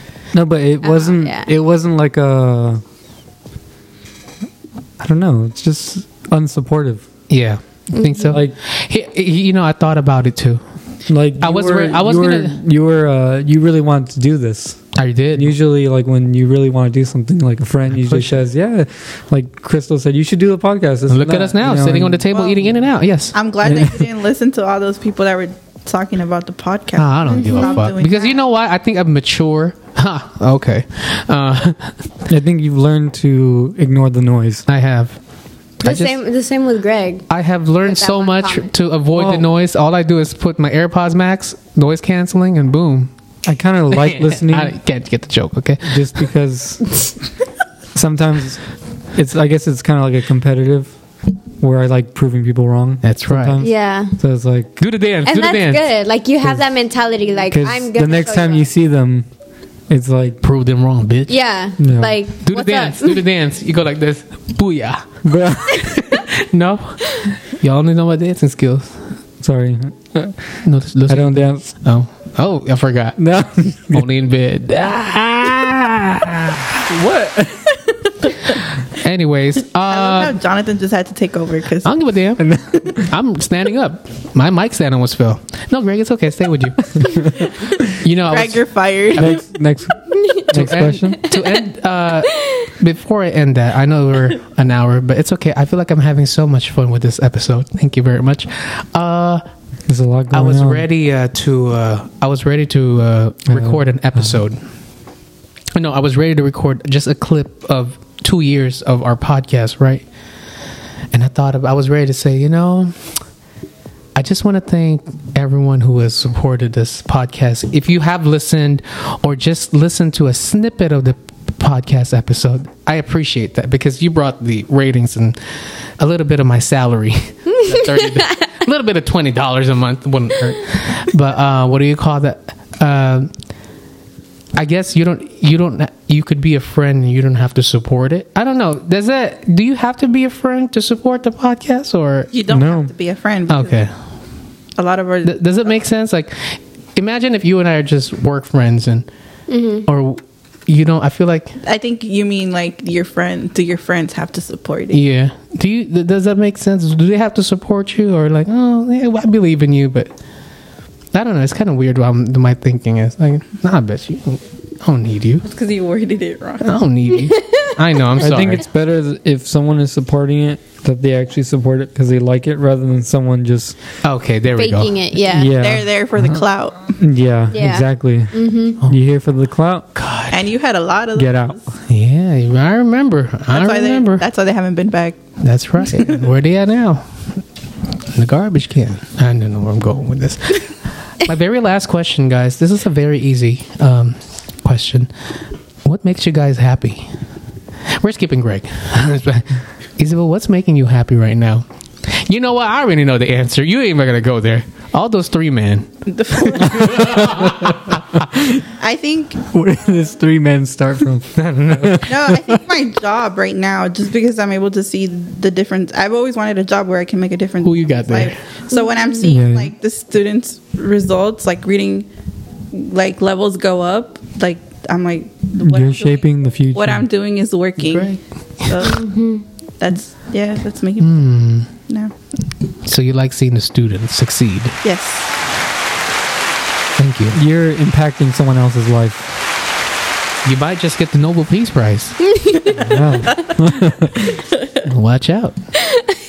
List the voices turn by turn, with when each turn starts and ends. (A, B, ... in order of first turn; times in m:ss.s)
0:00.3-0:02.8 A
0:00.8-0:01.5 B
0:05.0-0:07.1 A
0:07.3-0:10.6 C
0:07.9-0:08.3 B
0:11.1-0:14.8 A
0:11.4-0:12.6 C
0:15.0-0:15.5 C
0:15.4-0:22.3 A
0:18.0-0:18.4 C
0:21.1-0:23.4 C
0:22.3-0:22.6 D
0:23.3-0:28.4 D
0:23.6-0:24.1 A
0:27.0-0:32.1 C
0:27.3-0:27.8 B
0:32.3-0:34.6 A
0:34.7-0:35.2 C
0:35.8-0:36.2 C
0:35.8-0:37.3 B
0:37.3-0:43.1 C
0:37.8-0:38.7 B
0:39.2-0:39.5 A
0:43.5-0:44.8 A
0:43.9-0:46.1 C
0:45.8-0:47.0 A
0:48.0-0:48.6 A
0:49.2-0:50.9 A
0:51.6-0:54.8 A
0:53.0-0:53.6 C
0:53.6-0:54.2 B
0:54.8-0:55.9 C
0:55.2-0:58.7 B
0:57.5-0:59.3 A
0:59.9-1:00.4 A
1:00.4-1:01.4 C
1:01.3-1:03.2 B
1:01.8-1:02.2 A
1:02.4-1:05.2 C
1:05.2-1:06.2 A
1:05.8-1:09.0 C
1:09.4-1:11.7 A
1:10.6-1:13.2 C
1:13.2-1:14.1 A
1:13.9-1:16.8 C
1:16.9-1:17.8 A
1:18.6-1:20.4 C
1:19.9-1:22.0 D
1:21.8-1:29.4 C
1:22.4-1:23.1 A
1:27.0-1:27.5 A
1:28.3-1:29.4 D
1:29.2-1:31.3 A
1:30.1-1:30.4 B
1:30.5-1:39.4 C
1:32.3-1:32.6 B
1:39.9-1:40.9 A
1:40.3-1:44.6 C
1:43.5-1:44.4 A
1:45.8-1:50.0 C
1:51.1-1:53.0 C
1:54.2-2:05.4 C
2:06.0-2:13.3 C
2:14.6-2:22.3 C
2:22.3-2:23.8 D
2:22.5-2:22.9 A
2:23.5-2:23.9 C
2:24.8-2:25.7 D
2:25.2-2:29.1 C
2:29.5-2:29.9 B
2:29.9-2:31.6 C
2:31.6-2:35.0 D
2:34.9-2:40.1 C
2:41.1-2:45.4 C
2:45.4-2:46.7 D
2:46.6-2:48.6 C
2:47.4-2:47.7 B
2:48.2-2:53.8 A
2:54.0-2:55.0 C
2:54.6-2:55.5 B
2:55.3-2:56.4 A
2:55.5-2:57.0 D
2:57.0-2:59.9 A
2:57.5-2:58.8 B
3:00.0-3:00.5 C
3:00.3-3:01.6 D
3:01.2-3:01.7 A
3:01.9-3:04.2 C
3:03.5-3:05.2 D
3:05.4-3:07.1 C
3:08.1-3:15.1 C
3:15.8-3:17.1 C
3:17.9-3:27.8 C
3:26.1-3:27.3 D
3:26.8-3:28.6 A
3:28.8-3:29.4 D
3:29.4-3:32.6 A
3:31.4-3:32.3 C
3:32.1-3:42.1 D
3:37.6-3:38.4 C
3:38.7-3:39.3 B
3:39.2-3:39.7 A
3:42.7-3:49.1 D
3:45.6-3:47.1 A
3:47.8-3:48.8 C
3:48.8-3:49.4 B
3:49.8-3:51.3 D
3:51.0-3:51.7 C
3:51.9-3:52.1 D
3:52.8-3:54.8 C
3:54.8-3:55.3 D
3:57.0-3:57.4 C
3:57.3-3:59.3 A
4:00.4-4:02.8 C
4:02.3-4:02.7 B
4:02.8-4:04.4 A
4:04.8-4:05.6 C